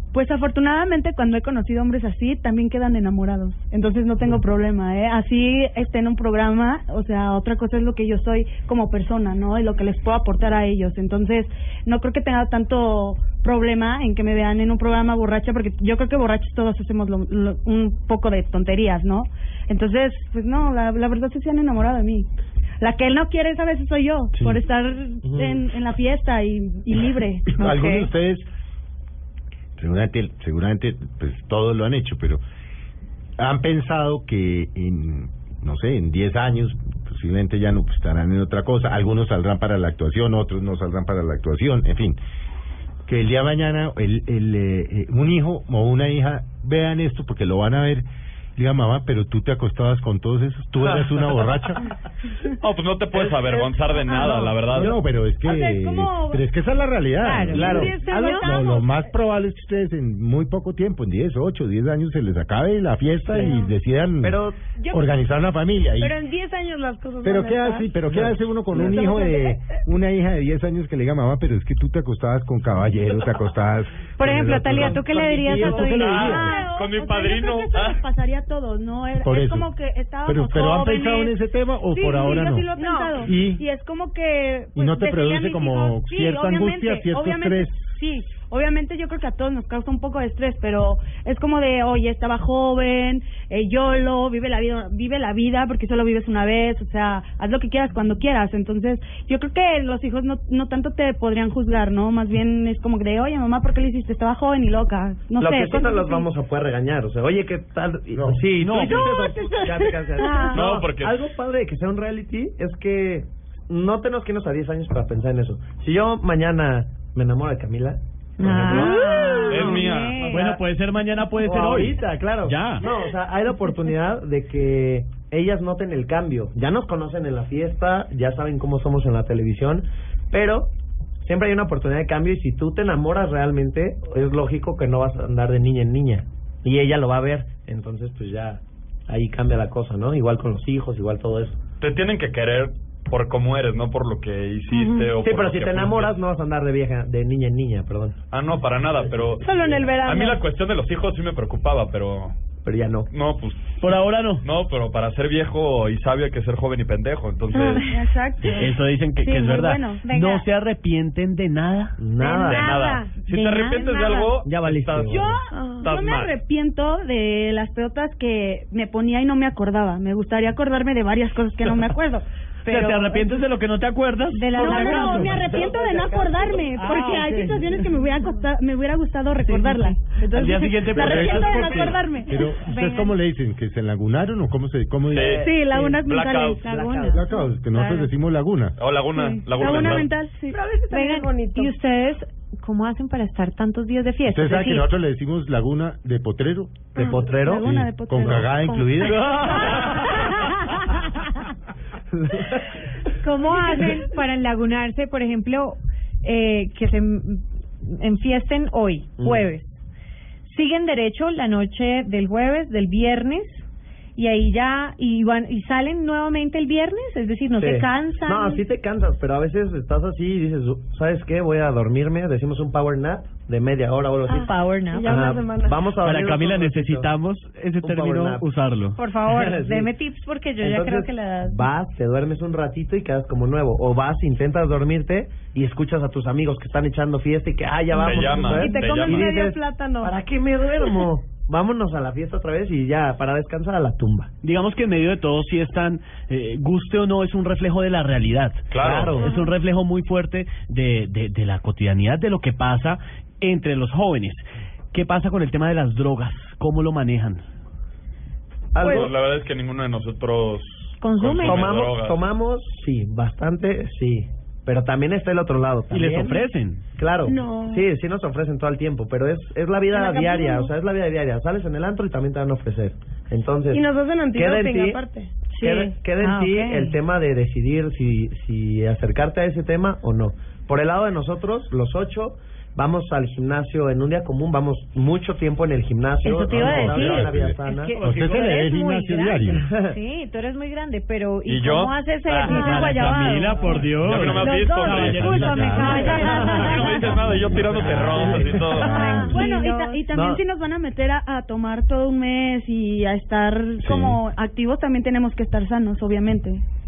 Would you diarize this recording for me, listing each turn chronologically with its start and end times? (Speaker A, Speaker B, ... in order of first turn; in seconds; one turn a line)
Speaker A: 0.1-22.3
Speaker A: 22.8-27.9
Speaker B: 25.2-25.6
Speaker C: 27.5-28.5
Speaker D: 27.6-28.1
Speaker C: 29.8-32.4
Speaker C: 33.4-42.2
Speaker C: 43.1-51.8
Speaker E: 52.6-55.0
Speaker B: 53.1-55.0
Speaker C: 54.7-64.4
Speaker A: 55.4-56.4
Speaker D: 57.2-58.5
Speaker B: 57.5-58.0
Speaker F: 57.6-58.9
Speaker B: 63.2-63.6
Speaker B: 64.2-64.6
Speaker C: 64.9-66.2
Speaker F: 66.0-68.0
Speaker C: 67.2-76.5
Speaker B: 68.1-69.0
Speaker F: 68.8-69.6
Speaker D: 74.2-76.6
Speaker B: 74.8-75.5
Speaker E: 75.9-78.0
Speaker A: 76.0-81.4
Speaker C: 79.2-79.7
Speaker C: 80.2-82.7
Speaker A: 81.9-106.3
Speaker F: 82.8-83.1
Speaker D: 82.8-83.1
Speaker C: 83.2-83.6
Speaker C: 84.7-88.0
Speaker B: 105.4-120.6
Speaker C: 108.1-108.4
Speaker G: 108.6-109.3
Speaker D: 110.2-110.5
Speaker A: 110.2-110.5
Speaker E: 110.5-111.2
Speaker D: 118.4-120.5
Speaker G: 118.5-118.8
Speaker E: 119.5-120.3
Speaker G: 119.7-122.9
Speaker B: 121.4-130.7
Speaker B: 131.2-141.6
Speaker E: 141.8-146.2
Speaker B: 145.2-148.2
Speaker E: 148.3-152.3
Speaker F: 149.4-150.4
Speaker B: 152.6-153.1
Speaker E: 153.1-153.8
Speaker G: 153.8-154.4
Speaker E: 154.4-157.9
Speaker D: 157.5-157.8
Speaker A: 157.9-160.0
Speaker G: 158.4-162.0
Speaker D: 160.0-160.4
Speaker B: 162.0-162.8
Speaker D: 162.2-164.3
Speaker E: 162.4-166.3
Speaker B: 164.4-165.4
Speaker A: 165.1-173.3
Speaker F: 165.5-165.9
Speaker G: 172.6-175.4
Speaker D: 174.3-175.5
Speaker A: 174.6-182.5
Speaker B: 174.7-177.1
Speaker D: 176.8-177.4
Speaker G: 176.9-177.3
Speaker D: 179.4-180.0
Speaker G: 180.3-182.0
Speaker C: 180.9-185.4
Speaker D: 182.7-183.1
Speaker E: 185.1-186.6
Speaker B: 185.1-186.1
Speaker A: 185.4-186.7
Speaker B: 186.6-187.4
Speaker D: 186.6-188.1
Speaker C: 187.1-188.8
Speaker E: 188.8-190.1
Speaker A: 189.6-190.6
Speaker F: 189.6-191.7
Speaker D: 190.9-194.9
Speaker C: 194.2-196.9
Speaker B: 196.9-198.4
Speaker A: 197.0-199.3
Speaker C: 197.6-199.7
Speaker D: 199.4-199.7
Speaker B: 202.2-202.6
Speaker D: 203.2-209.8
Speaker B: 209.2-209.4
Speaker D: 210.4-213.6
Speaker D: 214.2-218.6
Speaker B: 217.6-227.1
Speaker D: 224.3-225.1
Speaker F: 224.9-225.9
Speaker G: 226.0-229.0
Speaker B: 227.8-228.4
Speaker D: 229.0-231.7
Speaker B: 229.2-229.9
Speaker B: 230.6-244.3
Speaker E: 237.9-239.3
Speaker F: 238.0-240.2
Speaker G: 244.4-257.4
Speaker E: 248.7-249.2
Speaker B: 248.7-249.4
Speaker B: 258.7-259.1
Speaker F: 258.8-259.1
Speaker E: 258.8-262.2
Speaker D: 261.0-261.7
Speaker B: 261.4-275.0
Speaker G: 265.9-266.8
Speaker F: 267.2-267.9
Speaker F: 269.9-270.7
Speaker F: 273.7-275.3
Speaker D: 275.5-277.0
Speaker B: 275.6-288.1
Speaker D: 286.2-297.2
Speaker C: 286.5-289.6
Speaker B: 289.5-289.9
Speaker E: 291.4-293.3
Speaker G: 292.4-296.9
Speaker E: 293.9-299.2
Speaker C: 295.2-296.1
Speaker B: 296.6-296.9
Speaker C: 297.2-299.3
Speaker B: 297.7-299.4
Speaker D: 298.8-300.0
Speaker A: 299.2-306.6
Speaker B: 300.1-300.4
Speaker C: 303.8-304.2